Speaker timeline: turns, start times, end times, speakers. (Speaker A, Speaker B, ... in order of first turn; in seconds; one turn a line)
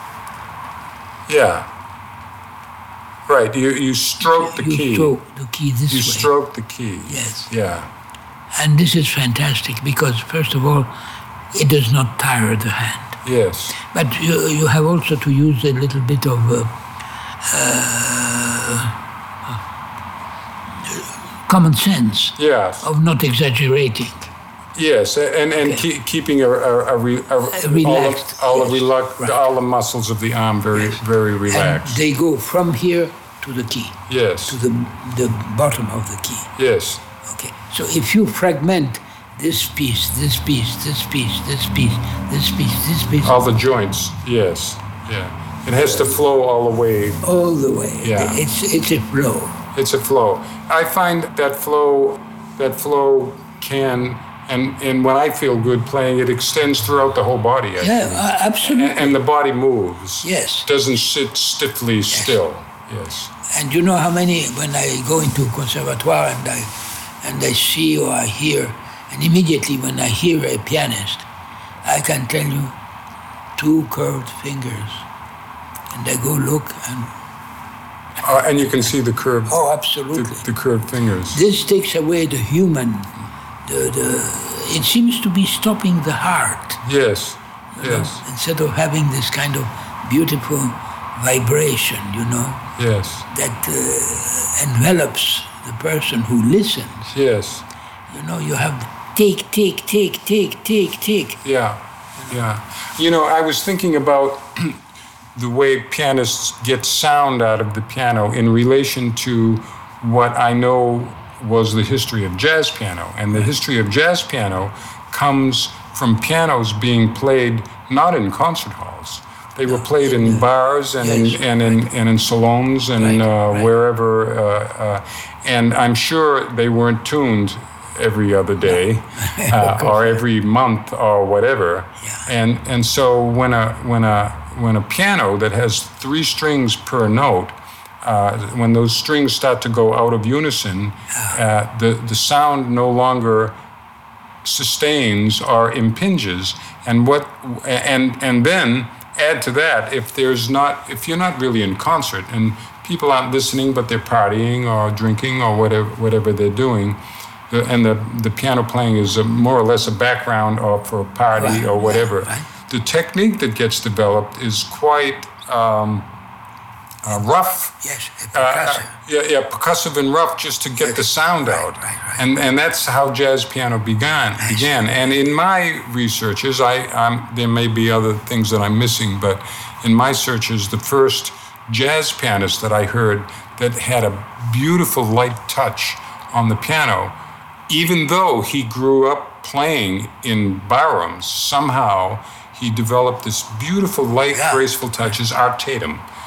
Speaker A: 1.3-1.7
Speaker A: 3.2-5.1
Speaker B: 4.2-6.3
Speaker A: 5.9-7.9
Speaker B: 7.0-7.5
Speaker B: 8.5-10.9
Speaker B: 11.5-13.2
Speaker A: 13.2-13.7
Speaker B: 13.8-16.7
Speaker B: 17.4-19.6
Speaker B: 20.8-24.3
Speaker A: 22.4-22.9
Speaker A: 24.8-32.0
Speaker B: 27.5-29.4
Speaker B: 30.7-36.5
Speaker A: 34.1-34.6
Speaker A: 36.6-37.0
Speaker B: 37.2-43.4
Speaker A: 43.2-47.2
Speaker B: 47.2-49.6
Speaker A: 48.0-48.4
Speaker A: 49.7-63.3
Speaker B: 57.8-59.2
Speaker B: 60.2-60.7
Speaker B: 62.1-62.4
Speaker B: 63.5-71.2
Speaker B: 71.8-72.7
Speaker B: 73.6-75.0
Speaker B: 75.9-77.1
Speaker A: 78.2-79.6
Speaker B: 79.5-80.4
Speaker A: 80.1-81.4
Speaker B: 81.3-83.1
Speaker B: 83.6-86.8
Speaker A: 86.8-88.2
Speaker B: 87.7-92.6
Speaker A: 92.8-93.3
Speaker B: 93.3-97.1
Speaker A: 97.1-97.6
Speaker B: 98.1-101.4
Speaker A: 101.4-104.8
Speaker A: 105.3-143.6
Speaker B: 119.7-120.5
Speaker B: 121.0-121.8
Speaker B: 123.0-123.7
Speaker B: 128.7-130.2
Speaker B: 141.1-141.4
Speaker A: 144.4-166.1
Speaker B: 161.3-162.5
Speaker A: 167.0-167.8
Speaker B: 167.8-168.9
Speaker A: 168.3-187.2
Speaker B: 170.8-172.2
Speaker B: 174.4-175.0
Speaker A: 187.7-196.0
Speaker B: 194.3-194.6